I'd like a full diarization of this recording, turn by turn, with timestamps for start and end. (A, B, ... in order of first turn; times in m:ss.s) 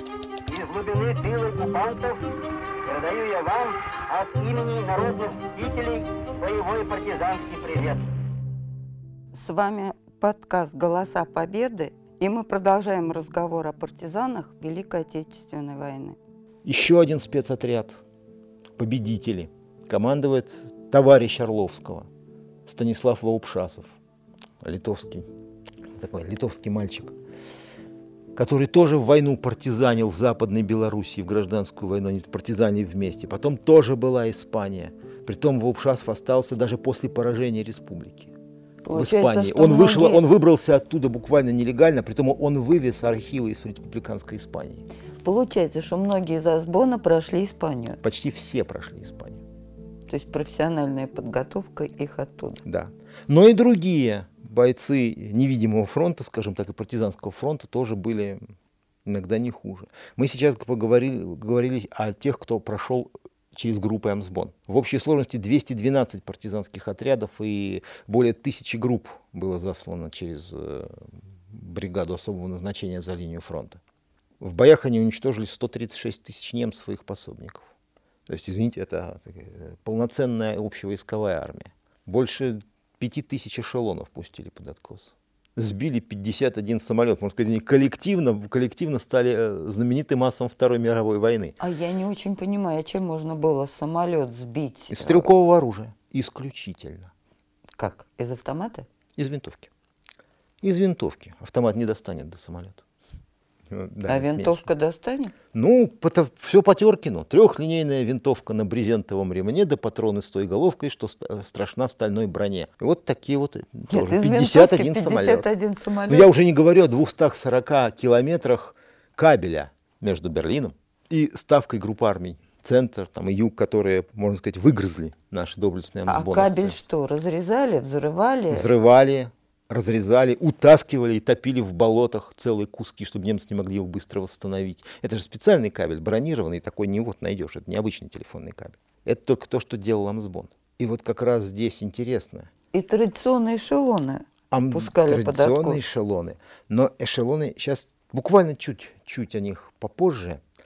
0:00.5-0:02.2 A
0:02.8-0:08.0 A
0:09.3-0:16.2 B
0:16.6-0:18.0 C
0:18.8-0:22.1 C
0:22.6-0:24.0 C
0:24.6-0:25.3 C
0:25.9-0:27.2 C
0:28.3-0:38.3 C
0:38.8-0:40.2 B
0:38.9-0:44.8 C
0:45.2-0:48.0 B
0:48.0-0:49.4 C
0:50.1-0:52.6 B
0:52.6-0:58.4 C
0:59.0-1:13.8 C
1:14.4-1:17.7 C
1:18.3-1:31.6 C
1:31.6-1:35.3 B
1:34.9-1:37.1 C
1:37.8-1:38.9 B
1:39.2-1:39.7 C
1:40.6-1:42.8 C
1:43.7-1:44.7 C
1:44.1-1:45.3 B
1:45.5-1:55.5 C
1:53.9-1:56.3 B
1:56.1-2:06.8 C
2:06.1-2:08.7 B
2:08.5-2:22.5 C
2:22.7-2:25.8 B
2:24.5-2:30.4 C